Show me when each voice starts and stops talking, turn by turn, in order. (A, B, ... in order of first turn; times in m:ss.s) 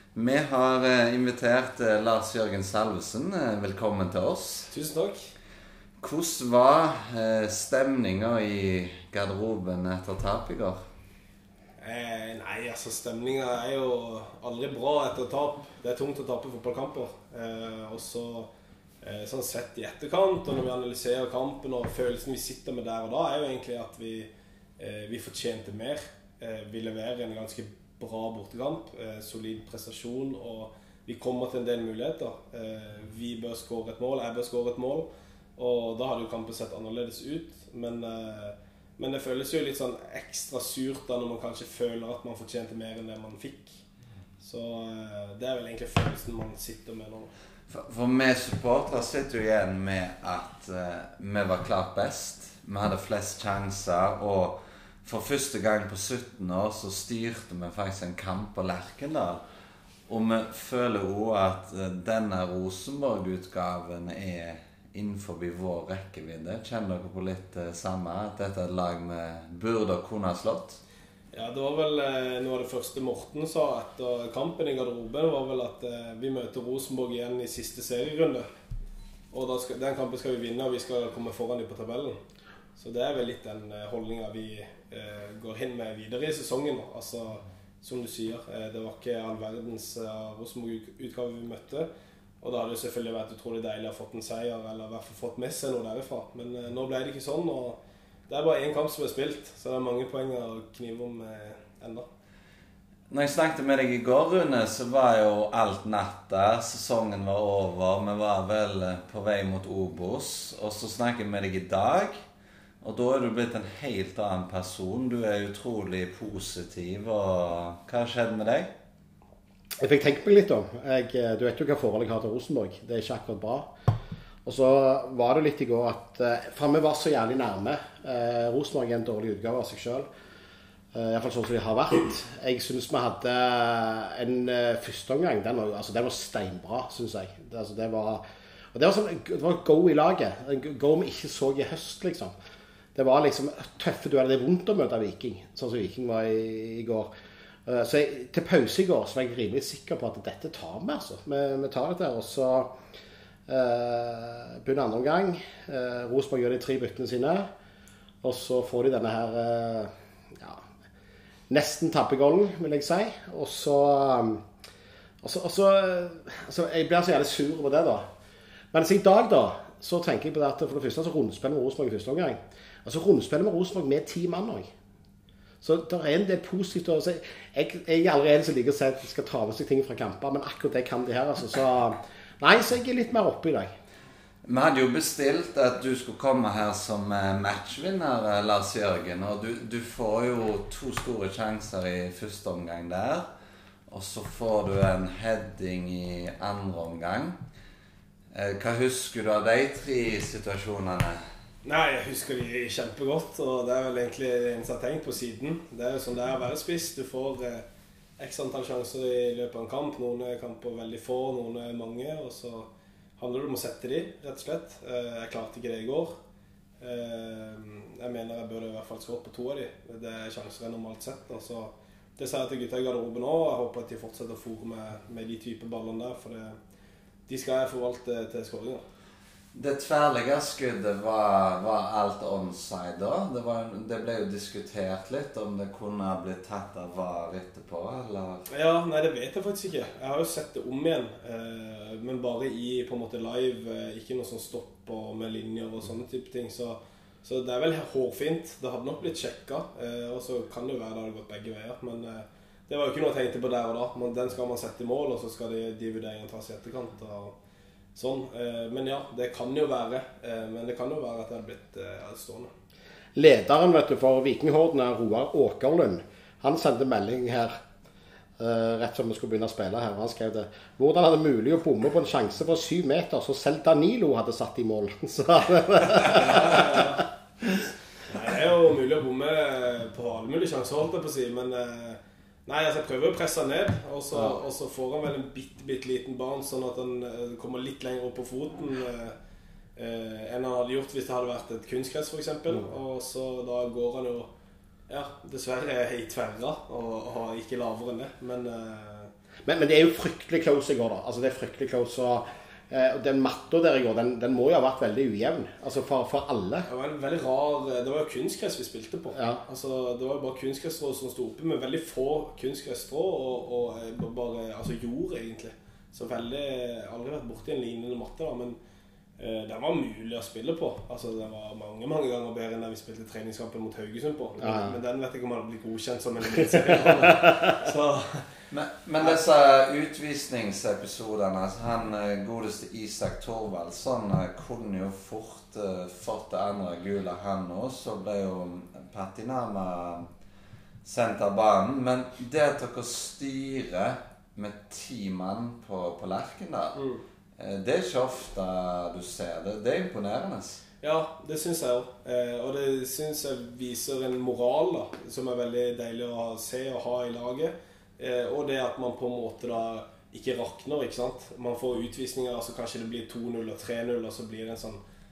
0:00.2-0:04.7 A
0:04.7-0:05.3 B
0:06.0-0:10.8 A
0:11.8-0:18.5 B
0:19.0-0:43.8 B
0:44.4-0:47.3 B
0:47.7-0:59.4 A
1:00.1-1:10.8 A
1:11.3-1:18.4 B
1:19.3-1:22.2 B
1:22.8-1:31.9 B
1:32.4-1:42.0 B
1:43.1-1:52.2 A
1:52.8-1:58.7 A
1:59.8-2:03.7 C
2:04.4-2:10.1 C
2:10.9-2:18.2 C
2:18.7-2:22.3 C
2:23.0-2:27.1 C
2:27.7-2:32.7 C
2:33.5-2:37.5 C
2:38.2-2:40.6 C
2:41.5-2:44.4 C
2:45.2-2:48.0 C
2:48.7-2:54.7 C
2:55.6-3:03.7 C
3:04.4-3:13.3 A
3:13.9-3:17.4 A
3:18.3-3:21.2 A
3:21.6-3:27.6 B
3:28.2-3:36.1 B
3:36.8-3:46.6 B
3:47.3-3:48.8 B
3:49.5-3:58.5 A
3:58.5-4:17.3 B
4:18.0-4:22.5 B
4:23.2-4:27.5 C
4:28.4-4:36.8 C
4:36.0-4:37.0 B
4:38.1-4:49.2 B
4:49.8-4:54.3 B
4:54.9-4:59.1 B
4:59.5-5:06.7 C
5:06.7-5:18.6 B
5:09.1-5:09.4 C
5:19.2-5:28.2 B
5:24.4-5:24.8 C
5:28.5-5:40.0 A
5:40.8-5:46.8 A
5:46.8-5:47.0 B
5:47.4-5:50.6 A
5:50.8-6:04.8 B